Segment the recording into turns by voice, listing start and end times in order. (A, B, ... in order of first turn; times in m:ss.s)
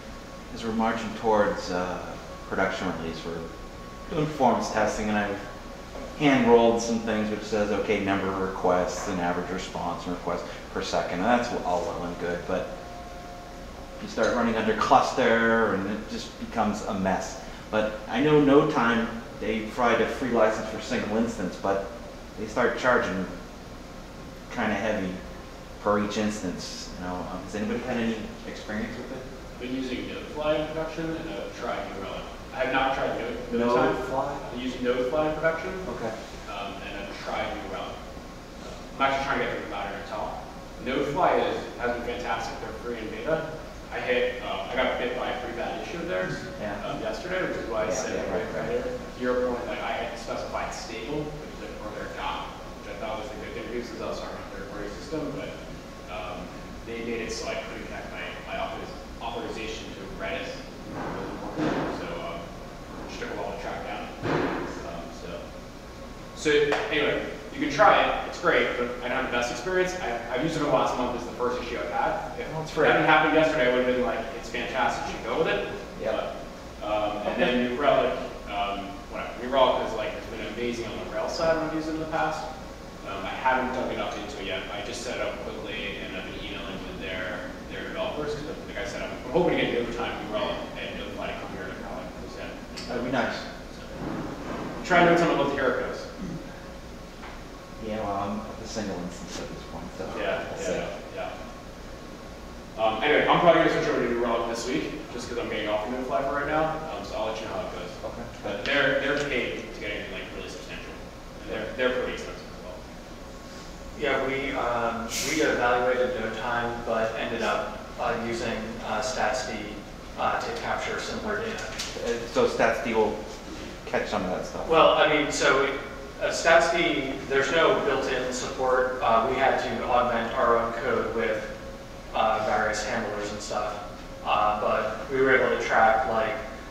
0:00.5-0:03.5 A
0:04.1-0:05.4 A
0:06.2-0:12.7 A
0:14.0-0:21.8 A
0:22.4-0:23.3 A
0:24.5-0:25.2 A
0:25.8-0:29.2 A
0:29.6-0:35.8 B
0:33.5-0:34.4 A
0:35.8-0:36.1 A
0:36.5-0:38.0 B
0:38.6-0:55.5 B
0:46.6-0:46.8 A
0:47.8-0:48.7 A
0:56.1-1:02.4 B
1:03.1-1:05.4 B
1:06.3-1:22.4 B
1:12.5-1:13.0 A
1:23.0-1:33.9 B
1:32.9-1:33.4 A
1:34.8-1:36.1 B
1:37.8-1:40.9 A
1:40.1-1:41.3 B
1:42.8-1:52.8 B
1:48.0-1:48.6 A
1:54.0-2:01.7 C
2:01.9-2:03.2 A
2:03.8-2:04.8 A
2:04.6-2:11.5 C
2:12.1-2:16.4 C